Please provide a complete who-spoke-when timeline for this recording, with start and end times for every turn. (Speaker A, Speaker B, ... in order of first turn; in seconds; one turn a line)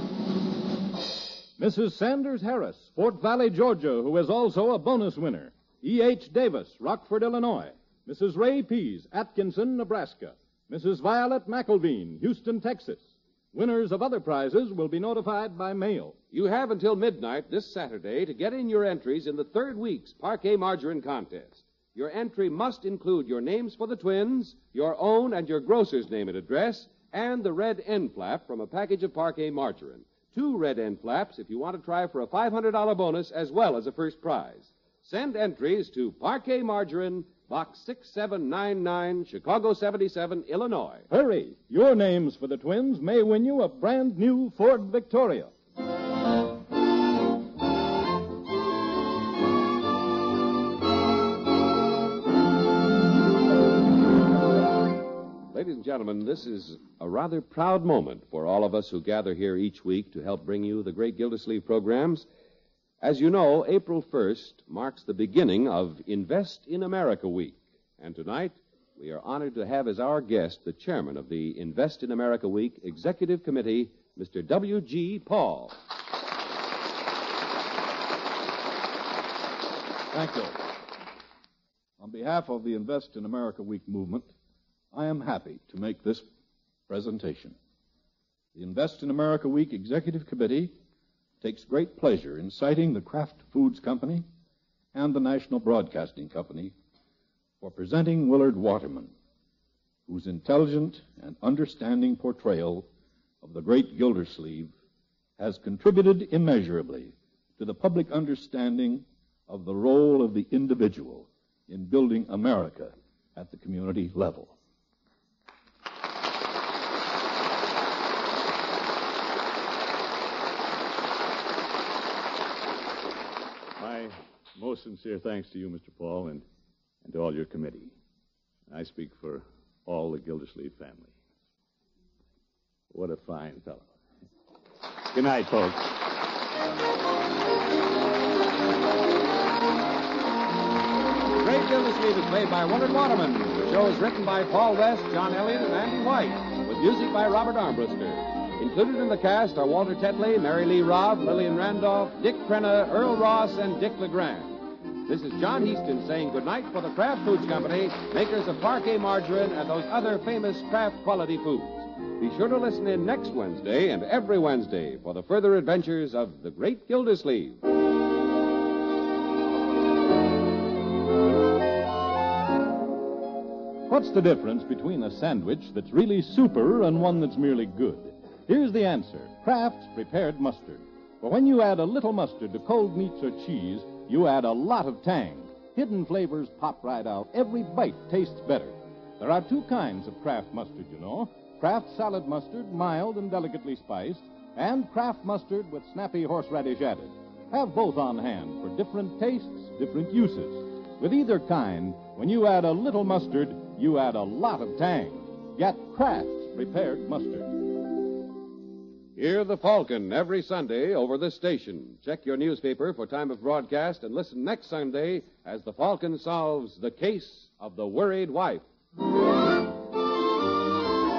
Speaker A: 1.6-16.1
Speaker B: 16.3-41.1
Speaker A: 41.1-45.5
Speaker B: 55.5-62.2
Speaker B: 63.0-75.7
Speaker C: 80.1-80.7
Speaker C: 82.0-84.3
Speaker C: 84.9-86.2
Speaker C: 86.9-87.5
Speaker C: 88.5-90.7
Speaker C: 91.4-94.2
Speaker C: 94.9-96.7
Speaker C: 97.6-99.1
Speaker C: 100.1-102.9
Speaker C: 103.4-104.7
Speaker C: 105.4-114.5
Speaker D: 123.8-126.4
Speaker D: 127.0-127.9
Speaker D: 128.7-131.2
Speaker D: 132.9-133.9
Speaker D: 135.1-136.0
Speaker B: 141.4-167.6
Speaker A: 173.9-207.5
Speaker B: 209.2-218.6